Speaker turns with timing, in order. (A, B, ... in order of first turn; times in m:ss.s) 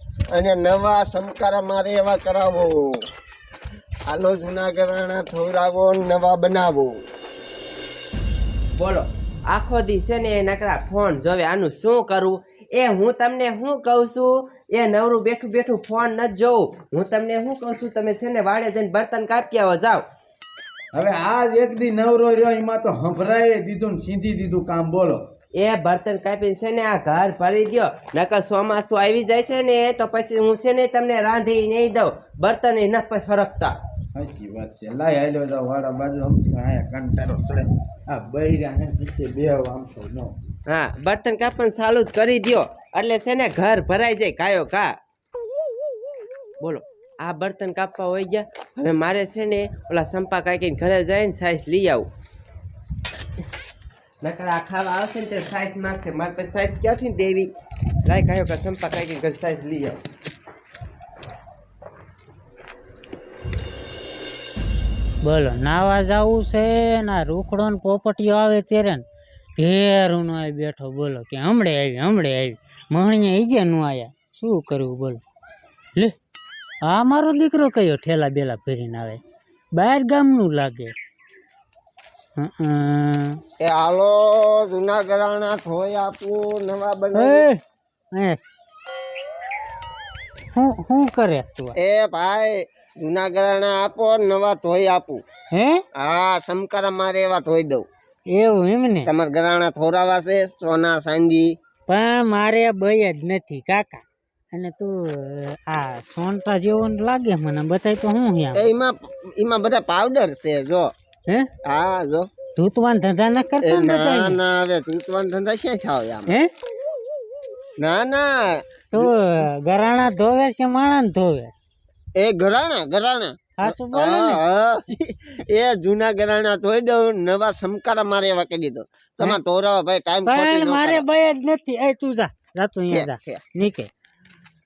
0:00.3-0:03.0 A
0:04.1-0:07.0 A
0:08.8-0:20.0 B
0:20.9-0:25.3 C
0:25.5-0:33.8 B
0:34.1-0:40.3 C
0:40.6-0:44.9 B
0:46.6-0:52.1 B
0:54.2-0:57.5 B
0:58.0-1:00.0 B
1:05.2-1:09.0 D
1:09.6-1:15.2 D
1:16.9-1:19.2 D
1:19.8-1:20.9 D
1:22.4-1:23.4 D
1:23.6-1:27.4 A
1:27.1-1:27.6 D
1:28.1-1:28.4 D
1:30.5-1:31.8 D
1:31.8-1:35.2 A
1:35.5-1:35.8 D
1:36.0-1:37.8 A
1:38.3-1:39.1 D
1:39.0-1:41.5 A
1:41.9-1:48.7 D
1:48.5-1:50.9 A
1:51.6-1:52.3 A
1:52.6-1:54.4 D
1:53.6-1:56.3 A
1:56.3-1:56.5 D
1:57.8-1:59.1 A
1:58.9-2:01.5 D
2:02.2-2:11.0 A
2:03.6-2:04.4 D
2:10.3-2:13.9 D
2:12.9-2:13.4 A